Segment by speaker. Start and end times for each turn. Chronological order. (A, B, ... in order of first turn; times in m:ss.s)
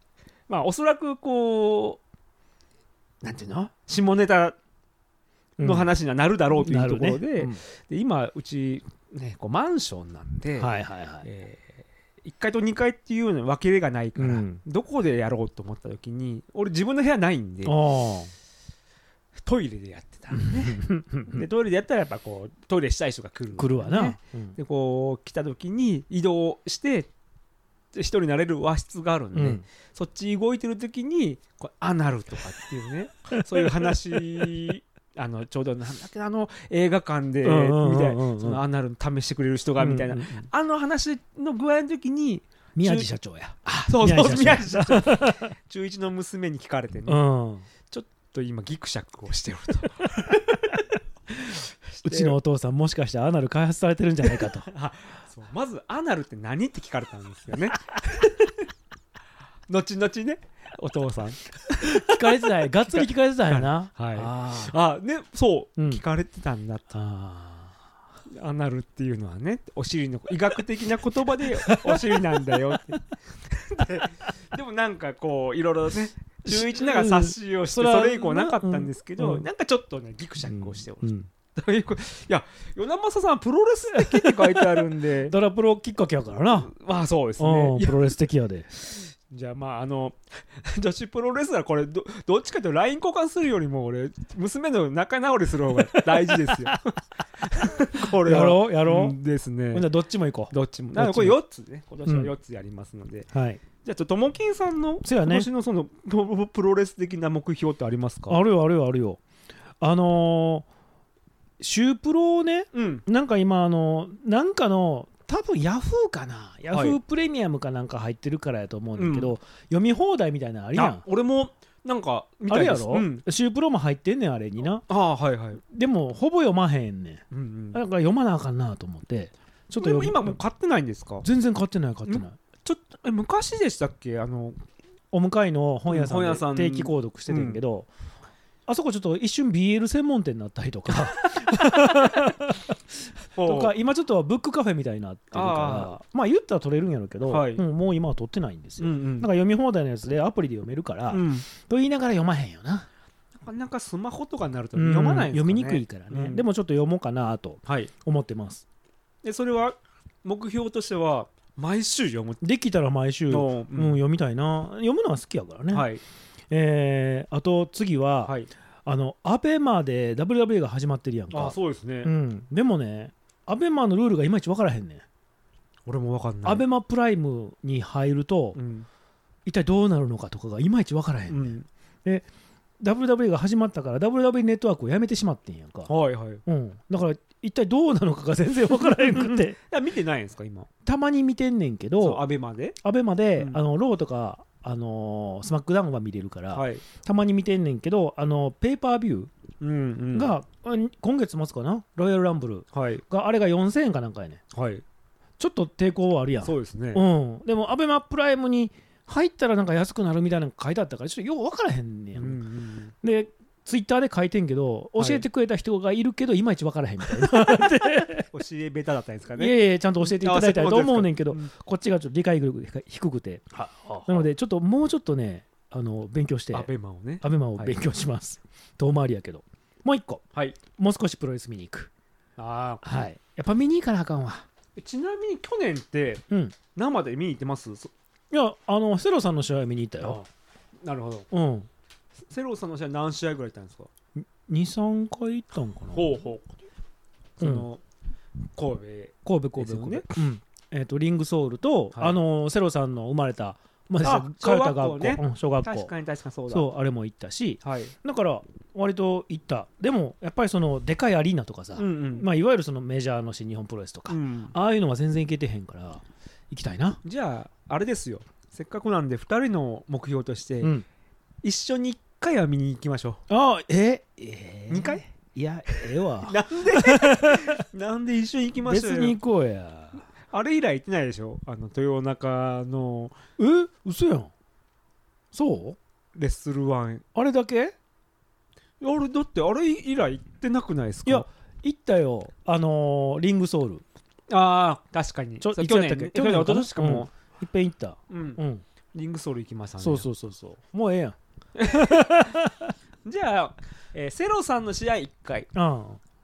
0:00.5-0:02.0 A
0:03.2-0:04.6 A
0:05.6-0:05.9 B
0:05.6-0:17.8 A
0:06.5-0:07.6 B
0:10.6-0:11.2 B
0:14.2-0:14.6 B
0:17.6-0:18.3 B
0:19.4-0:27.1 A
0:20.3-0:21.5 B
0:23.6-0:24.6 B
0:27.9-0:43.1 A
0:29.3-0:29.6 B
0:33.3-0:33.8 B
0:37.4-0:38.6 B
0:39.8-0:40.5 B
0:42.8-0:45.5 B
0:43.6-0:47.2 A
0:47.1-0:47.6 B
0:47.9-0:50.8 A
0:51.9-0:52.4 A
0:52.0-0:54.7 B
0:54.2-0:58.6 A
0:59.7-1:07.0 A
1:01.8-1:04.7 B
1:05.8-1:06.0 B
1:06.9-1:07.7 B
1:08.3-1:25.3 A
1:11.6-1:12.6 B
1:16.4-1:19.4 B
1:20.4-1:21.3 B
1:23.9-1:26.7 B
1:26.5-1:28.1 A
1:27.4-1:28.7 B
1:28.7-1:39.9 A
1:35.8-1:36.7 B
1:38.1-1:39.2 B
1:39.7-1:41.4 B
1:40.5-1:48.4 A
1:42.0-1:42.3 B
1:43.3-1:43.6 B
1:45.0-1:45.5 B
1:48.3-1:49.2 B
1:49.8-1:50.6 B
1:51.6-2:01.0 B
1:52.7-1:53.0 A
1:56.7-1:57.0 A
1:59.0-1:59.3 A
2:00.7-2:03.2 A
2:02.5-2:04.8 B
2:04.9-2:05.6 A
2:05.6-2:10.4 B
2:07.3-2:07.8 A
2:09.8-2:11.2 A
2:11.2-2:12.4 B
2:12.0-2:14.6 A
2:15.1-2:17.9 B
2:15.9-2:17.6 A
2:18.7-2:22.7 B
2:20.9-2:22.3 A
2:23.4-2:23.7 A
2:23.4-2:32.9 B
2:25.3-2:25.9 A
2:27.2-2:27.6 A
2:28.8-2:29.3 A
2:31.1-2:31.4 A
2:33.4-2:36.4 A
2:34.8-2:38.6 B
2:37.6-2:37.9 A
2:39.2-2:42.4 A
2:42.4-2:45.9 B
2:43.3-2:44.0 A
2:45.7-2:46.0 A
2:46.5-2:55.0 B
2:51.3-2:52.1 A
2:55.8-2:56.6 A
2:56.4-2:58.6 B
2:58.5-2:58.9 A
2:59.4-3:02.2 B
3:01.3-3:01.7 A
3:02.8-3:05.9 B
3:05.9-3:06.4 A
3:06.4-3:09.6 B
3:08.7-3:10.7 A
3:10.8-3:12.2 B
3:12.0-3:12.8 A
3:12.8-3:19.3 B
3:16.5-3:16.8 A
3:19.6-3:20.3 A
3:20.1-3:24.4 B
3:22.7-3:23.0 A
3:24.5-3:24.8 A
3:25.4-3:32.4 B
3:26.4-3:27.0 A
3:32.1-3:32.9 A
3:33.0-3:38.3 B
3:35.0-3:35.2 A
3:37.1-3:37.6 A
3:38.3-3:41.5 A
3:39.4-3:43.5 B
3:43.5-3:44.3 A
3:44.0-3:46.7 B
3:46.5-3:47.8 A
3:47.2-3:51.9 B
3:52.4-3:52.8 A
3:52.8-3:54.5 B
3:54.8-3:57.9 A
3:56.3-3:56.6 B
3:58.3-4:00.2 B
4:00.8-4:01.3 A
4:01.3-4:01.7 B
4:02.2-4:03.9 A
4:04.2-4:06.2 B
4:05.9-4:06.5 A
4:07.4-4:07.8 A
4:07.4-4:07.6 B
4:08.6-4:10.1 A
4:09.2-4:15.9 B
4:14.0-4:16.7 A
4:16.5-4:27.0 B
4:17.6-4:17.9 A
4:21.8-4:22.3 A
4:24.1-4:24.5 A
4:27.0-4:30.7 A
4:30.6-4:30.8 B
4:31.4-4:33.2 A
4:33.3-4:37.6 B
4:34.7-4:35.0 A
4:36.1-4:39.2 A
4:38.6-4:40.0 B
4:40.2-4:43.2 A
4:43.4-4:44.3 B
4:45.3-4:45.8 B
4:46.1-4:47.0 A
4:47.1-4:47.7 B
4:48.8-4:51.3 A
4:51.0-4:53.8 B
4:54.3-4:57.1 A
4:55.4-4:58.6 B
4:58.1-4:58.4 A
4:58.9-5:00.1 A
4:59.8-5:02.7 B
5:01.6-5:02.3 A
5:03.0-5:05.5 A
5:05.5-5:06.0 B